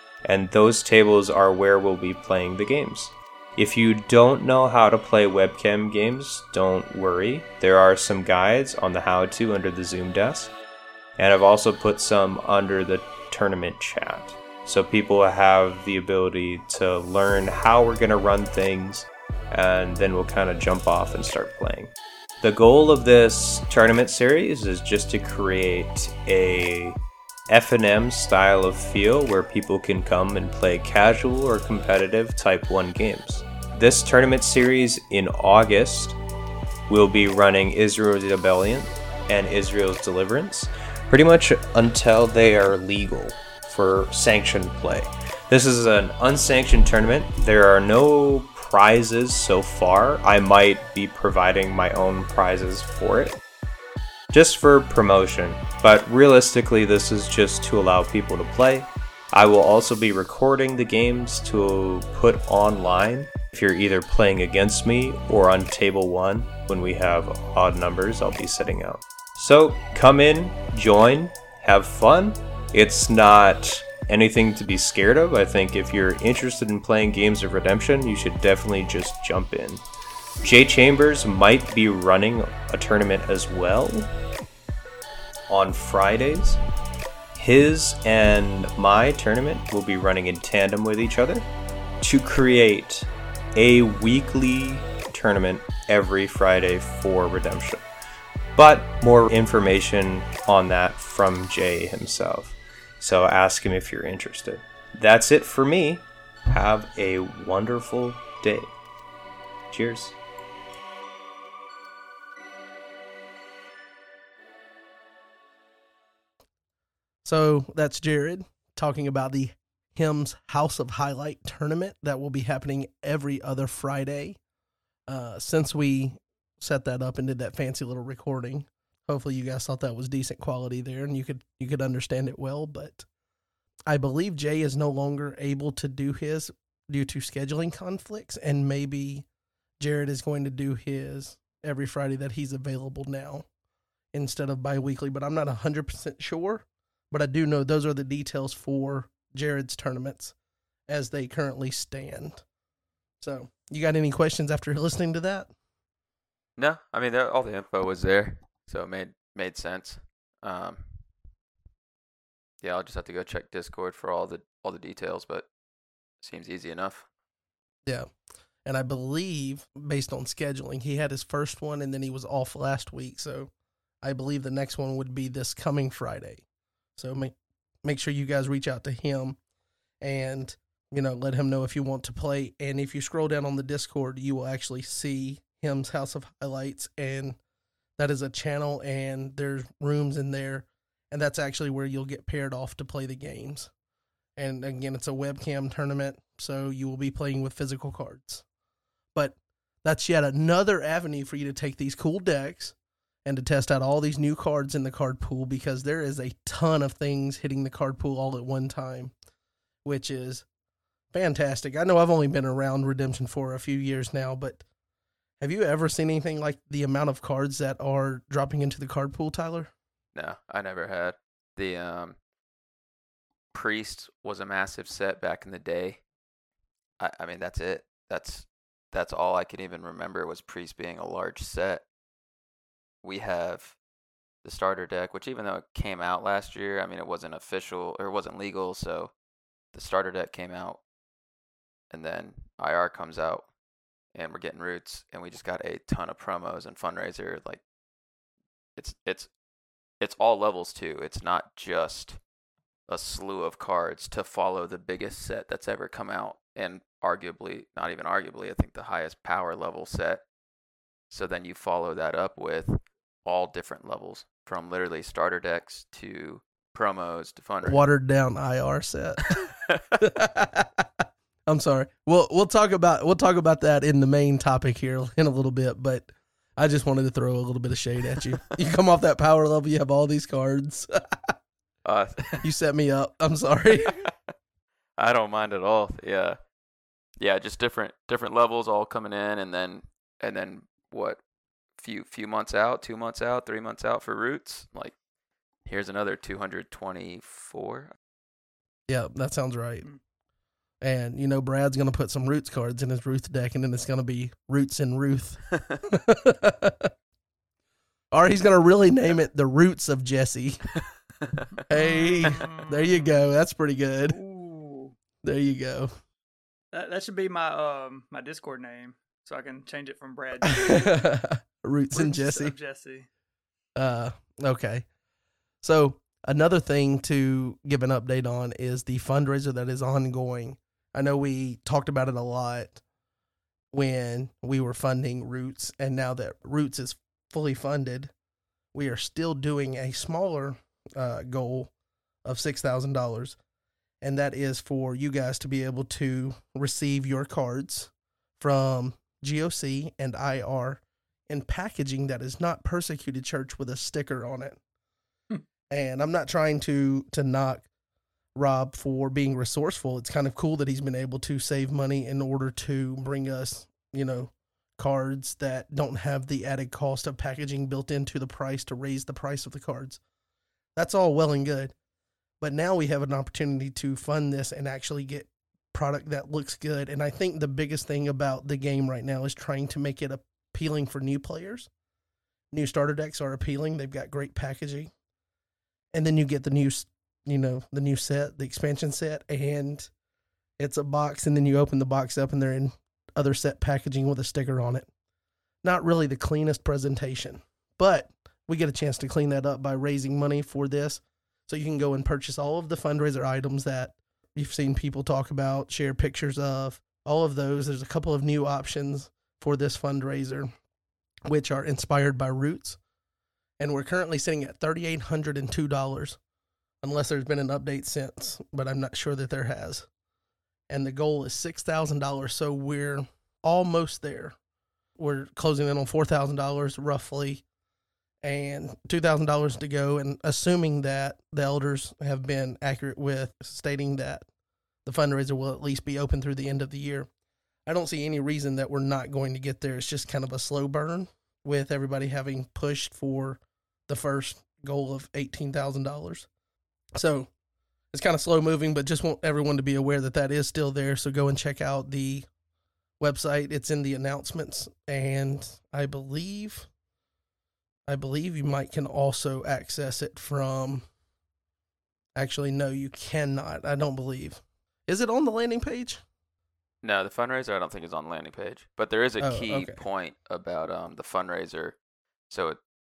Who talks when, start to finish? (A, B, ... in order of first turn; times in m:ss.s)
0:00.2-0:10.5 A
0:11.2-0:27.0 A
0:27.5-0:36.2 A
0:36.9-0:53.4 A
0:54.3-1:19.8 A
1:20.4-1:24.1 A
1:25.5-1:26.6 A
1:27.3-1:31.5 A
1:32.0-1:37.8 A
1:38.5-1:48.8 A
1:49.7-1:50.2 A
1:57.2-2:04.4 B
2:05.1-2:13.0 B
2:13.9-2:19.2 B
2:19.8-2:23.5 B
2:24.1-2:30.3 B
2:30.9-2:32.4 B
2:33.2-2:35.5 B
2:36.6-2:41.0 C
2:42.6-2:45.5 C
2:46.2-2:47.1 C
2:48.6-2:53.5 B
2:54.0-2:56.4 B
2:57.0-2:59.4 B
3:00.0-3:07.4 B
3:08.0-3:13.7 B
3:14.4-3:18.4 B
3:19.1-3:29.1 B
3:29.8-3:30.4 B
3:31.1-3:34.6 B
3:35.4-3:39.7 B
3:40.1-3:42.2 C
3:43.5-3:46.0 C
3:47.0-3:51.8 C
3:53.0-3:53.8 C
3:54.4-3:59.1 C
3:59.7-4:00.8 C
4:01.9-4:03.5 C
4:04.1-4:07.6 C
4:08.8-4:09.3 C
4:10.0-4:12.2 C
4:12.9-4:20.2 C
4:21.1-4:27.8 C
4:27.6-4:29.4 B
4:29.3-4:29.8 C
4:30.0-4:30.8 B
4:31.5-4:40.9 B
4:41.8-4:42.4 C
4:42.4-4:44.0 B
4:45.0-4:46.4 C
4:47.2-4:51.2 C
4:51.8-4:55.0 C
4:55.6-4:58.0 C
4:58.9-4:59.9 B
5:00.8-5:06.9 B
5:08.1-5:10.6 B
5:11.2-5:11.5 C
5:11.7-5:14.2 B
5:11.7-5:13.1 D
5:14.1-5:14.9 D
5:15.2-5:15.9 B
5:16.7-5:21.0 D
5:20.4-5:22.5 B
5:21.9-5:23.1 D
5:23.8-5:24.8 B
5:25.6-5:32.8 B
5:33.7-5:38.1 B
5:38.7-5:41.7 B
5:42.2-5:43.4 B
5:44.0-5:54.6 B
5:55.7-5:57.7 B
5:58.3-6:10.0 B
6:10.8-6:11.7 B
6:12.4-6:21.7 B
6:22.5-6:24.9 B
6:25.9-6:29.9 B
6:30.6-6:34.9 B
6:35.6-6:50.5 B
6:51.3-6:52.8 B
6:53.6-6:56.2 B
6:56.8-6:59.9 B
7:00.7-7:04.3 B
7:05.0-7:07.4 B
7:08.2-7:14.2 B
7:14.8-7:17.1 B
7:17.6-7:26.3 B
7:27.0-7:27.3 B
7:27.9-7:32.3 B
7:33.0-7:36.7 B
7:37.9-7:40.8 B
7:42.2-7:46.0 B
7:46.8-7:51.8 C
7:49.2-7:49.8 B
7:52.3-7:52.6 C